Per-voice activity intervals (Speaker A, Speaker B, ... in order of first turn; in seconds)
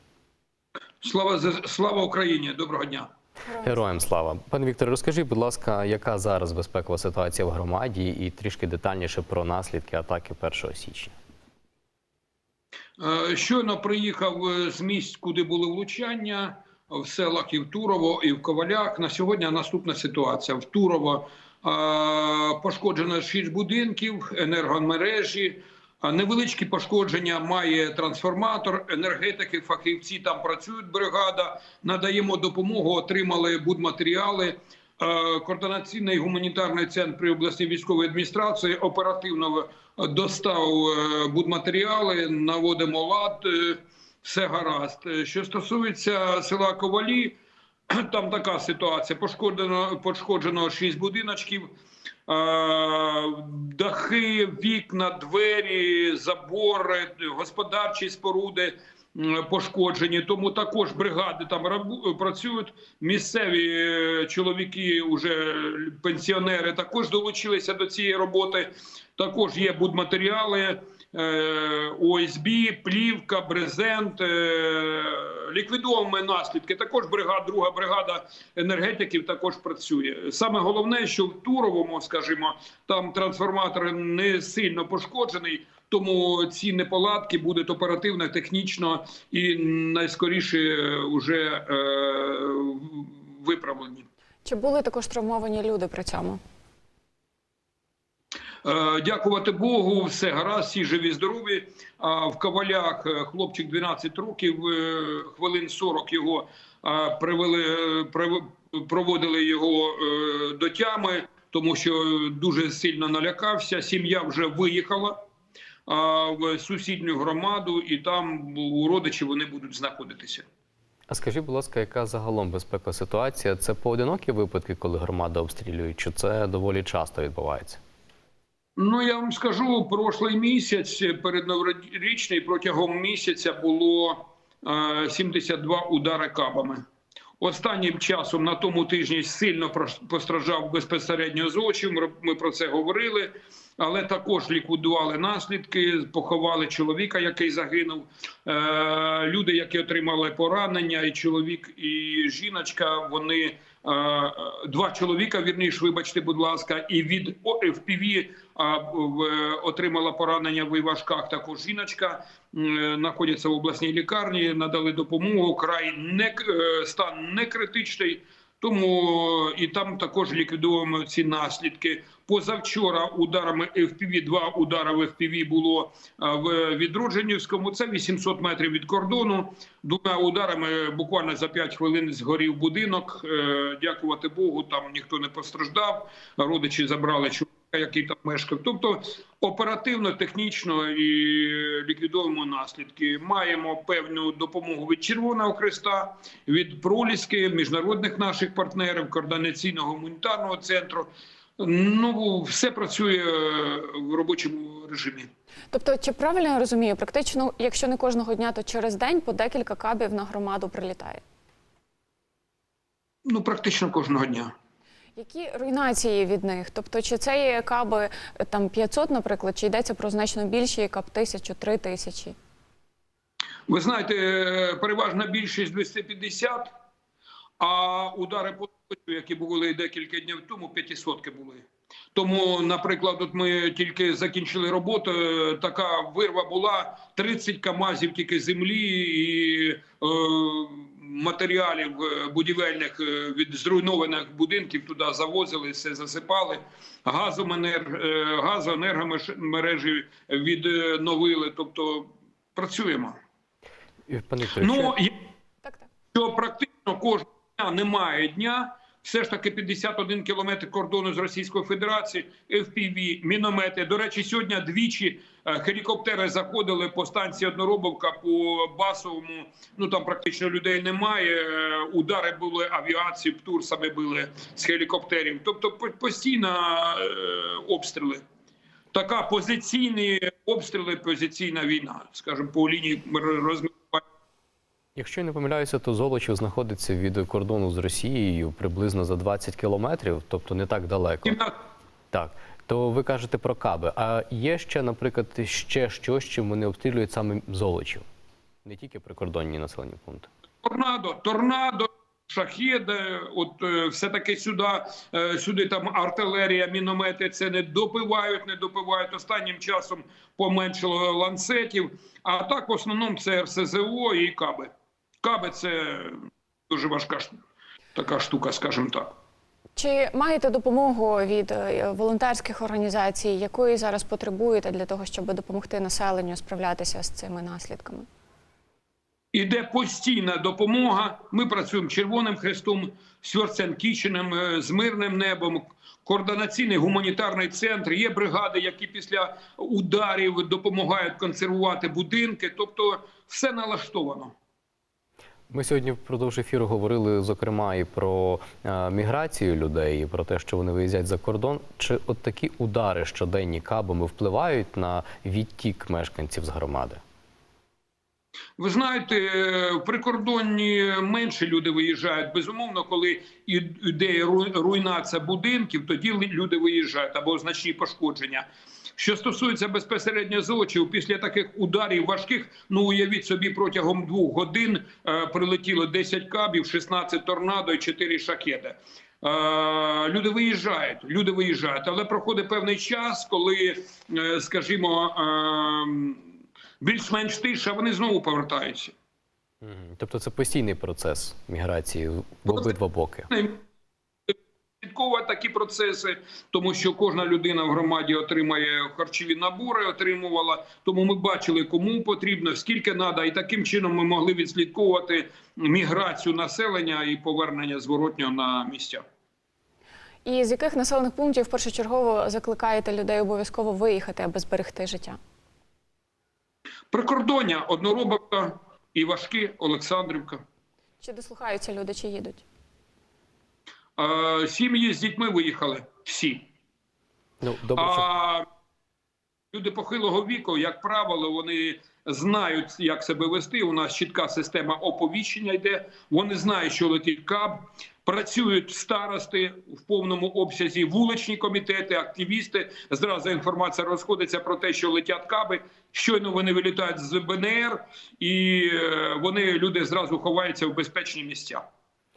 Speaker A: 1.0-3.1, 13.0-47.4, 47.9-51.7, 52.3-94.1, 98.6-115.2, 115.9-120.5, 128.8-136.8, 137.4-205.3, 213.3-214.5, 223.7-226.7, 227.6-253.2, 254.6-255.1, 256.1-278.2, 278.9-284.0, 291.2-291.5, 300.6-314.7, 315.2-316.2, 316.7-317.4, 317.9-319.1, 329.3-344.3, 358.6-368.4, 369.0-386.2, 386.8-388.9, 393.3-393.6, 394.3-409.0, 416.9-420.4, 424.0-426.4, 427.8-428.4, 429.5-451.6
Speaker B: 3.5-3.8, 94.5-96.4, 205.7-211.2, 215.2-222.4, 319.8-328.1, 410.2-415.2, 421.0-422.4
Speaker C: 3.6-11.1, 121.1-127.8, 254.1-255.0, 285.0-291.4, 292.1-298.0, 298.6-300.3, 345.5-357.0, 389.6-393.3, 427.4-428.1